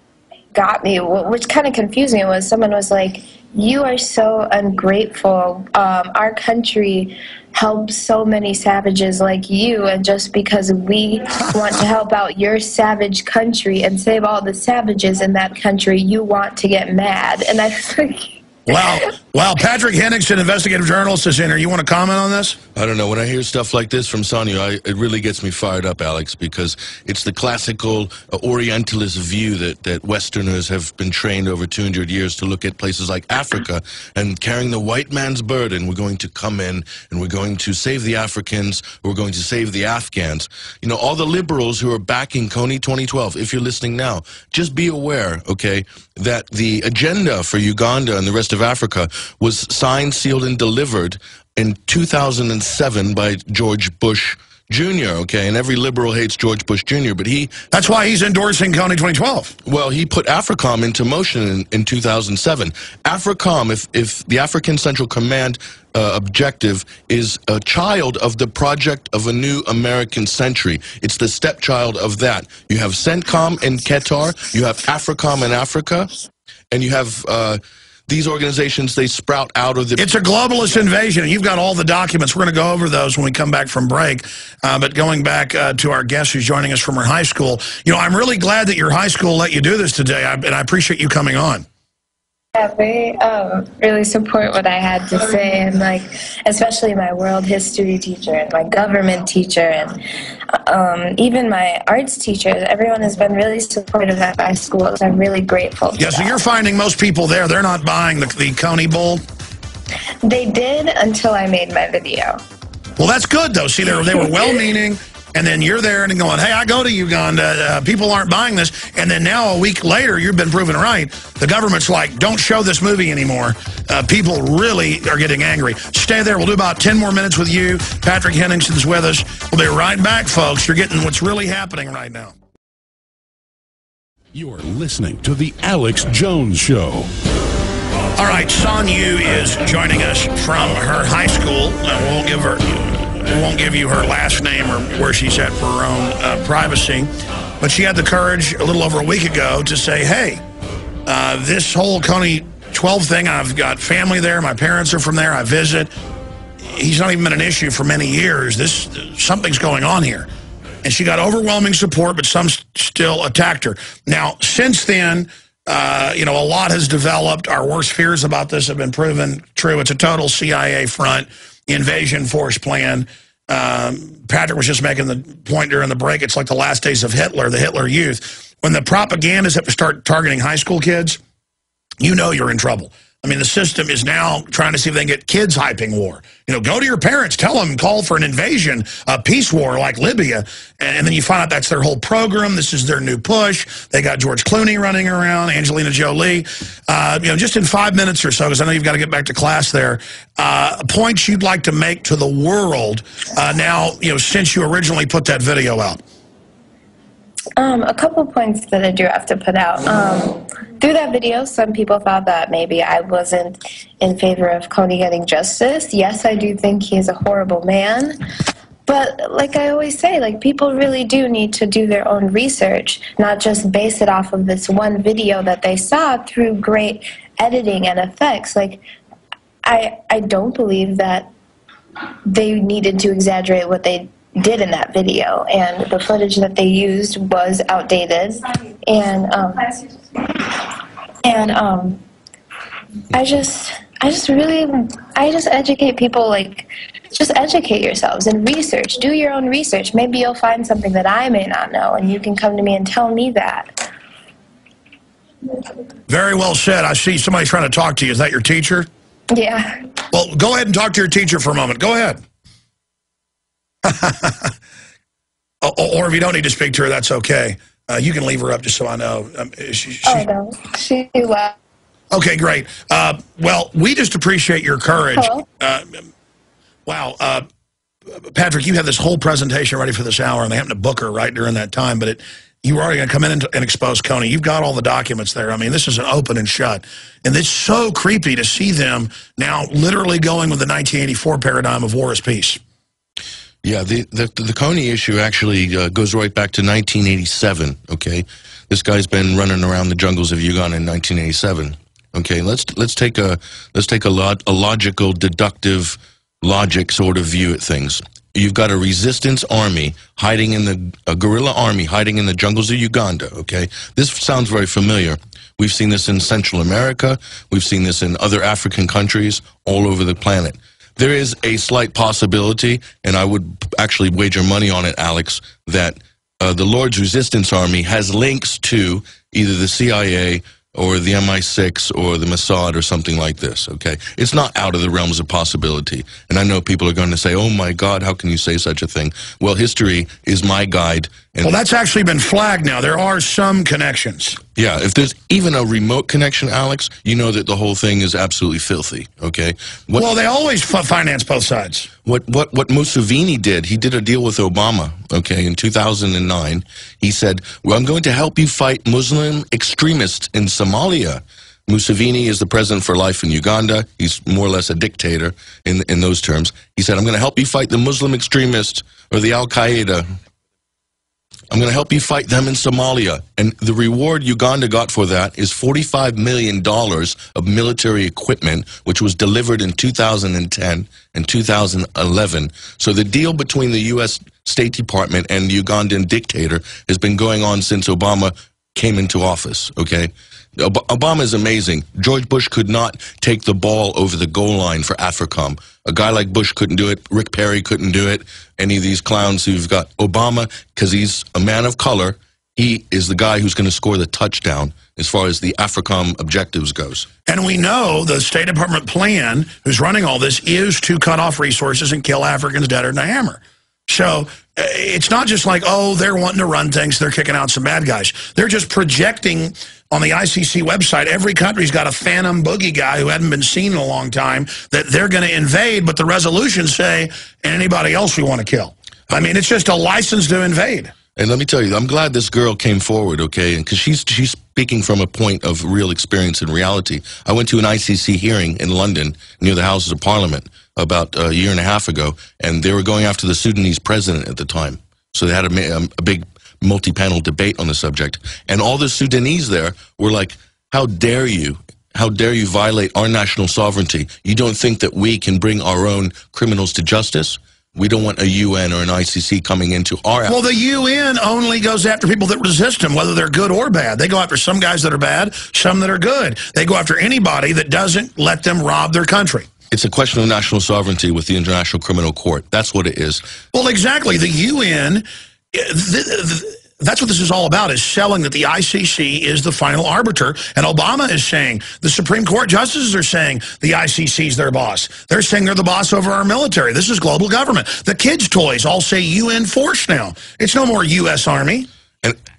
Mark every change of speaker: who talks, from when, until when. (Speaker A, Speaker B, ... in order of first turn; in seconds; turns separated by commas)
Speaker A: 0.5-18.4, Speaker B: 18.7-22.6, Speaker C: 22.8-57.6, Speaker B: 57.7-59.5, Speaker C: 59.6-76.2, Speaker C: 76.7-80.1, Speaker B: 80.0-91.6, Speaker A: 92.5-106.4, Speaker B: 106.0-109.2, Speaker A: 110.2-112.4, Speaker B: 113.0-132.3, Speaker D: 134.3-137.1, Speaker B: 138.2-150.4, Speaker B: 151.1-155.9, Speaker B: 156.6-160.3, Speaker B: 160.8-181.2, Speaker B: 182.0-206.0, Speaker A: 207.6-218.2, Speaker A: 218.9-228.8, Speaker A: 229.7-231.3, Speaker A: 232.2-240.4, Speaker A: 241.2-242.0, Speaker A: 243.1-253.9, Speaker B: 256.1-258.9, Speaker A: 259.3-259.8, Speaker B: 260.1-262.2, Speaker B: 263.8-264.5, Speaker B: 265.6-270.2, Speaker A: 270.0-271.5, Speaker B: 272.1-276.0, Speaker A: 275.1-275.5, Speaker B: 276.9-277.5, Speaker B: 278.1-292.6, Speaker C: 293.6-341.6, Speaker B: 341.4-344.4, Speaker C: 344.5-350.1, Speaker B: 350.0-351.9, Speaker C: 352.0-370.1, Speaker C: 371.5-407.1, Speaker B: 407.3-430.9, Speaker C: 431.2-460.4, Speaker B: 460.3-469.5, Speaker C: 469.7-473.2, Speaker B: 473.5-491.7